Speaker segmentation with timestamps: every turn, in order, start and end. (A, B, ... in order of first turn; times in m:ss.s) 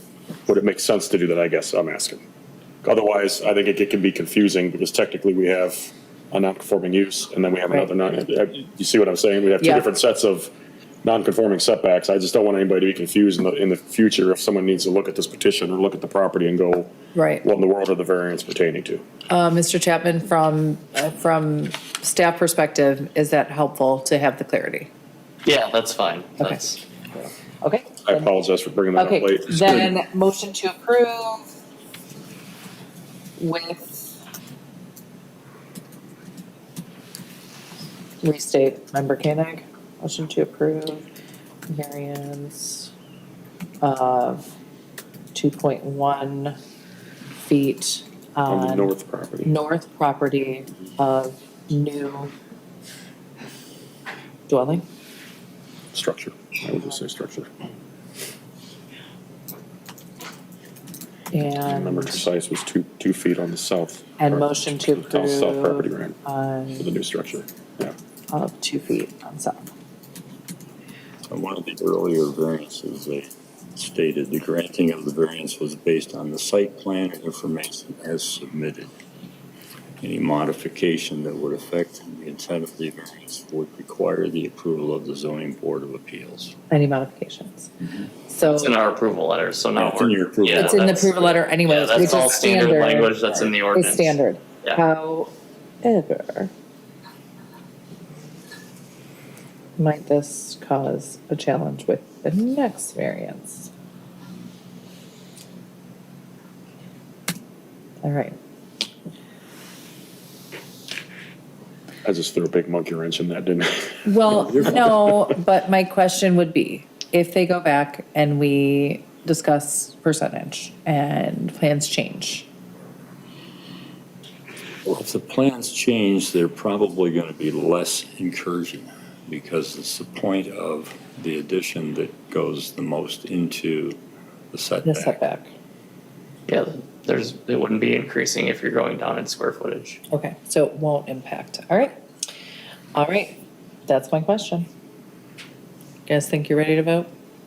0:00.5-0:02.2 A
0:02.8-0:10.5 A
0:09.6-0:09.8 B
0:11.0-0:19.0 A
0:17.1-0:17.4 B
0:19.3-0:24.9 B
0:25.4-0:26.7 C
0:26.4-0:28.3 B
0:28.0-0:29.9 A
0:29.0-0:31.4 B
0:33.4-0:34.1 B
0:38.2-0:41.0 B
0:41.7-0:42.9 B
0:43.8-0:44.5 B
0:45.3-0:46.6 B
0:47.4-0:48.9 B
0:48.5-0:49.5 A
0:49.4-0:52.3 B
0:54.5-0:54.8 B
0:55.9-0:57.5 A
1:01.3-1:02.2 B
1:01.6-1:06.2 A
1:04.2-1:06.9 B
1:06.8-1:07.9 A
1:08.3-1:09.6 B
1:11.3-1:18.9 D
1:20.0-1:26.6 D
1:26.7-1:27.7 B
1:28.2-1:28.8 B
1:28.5-1:34.8 C
1:29.7-1:31.1 D
1:30.5-1:35.3 B
1:35.8-1:36.5 B
1:39.8-1:43.7 B
1:48.0-1:48.4 B
1:52.0-1:54.3 A
1:54.0-2:02.5 B
1:54.3-1:54.8 D
2:04.8-2:14.0 D
2:14.5-2:15.2 D
2:14.8-2:15.5 B
2:16.5-2:20.0 C
2:20.1-2:21.9 B
2:22.9-2:24.7 B
2:26.1-2:27.1 B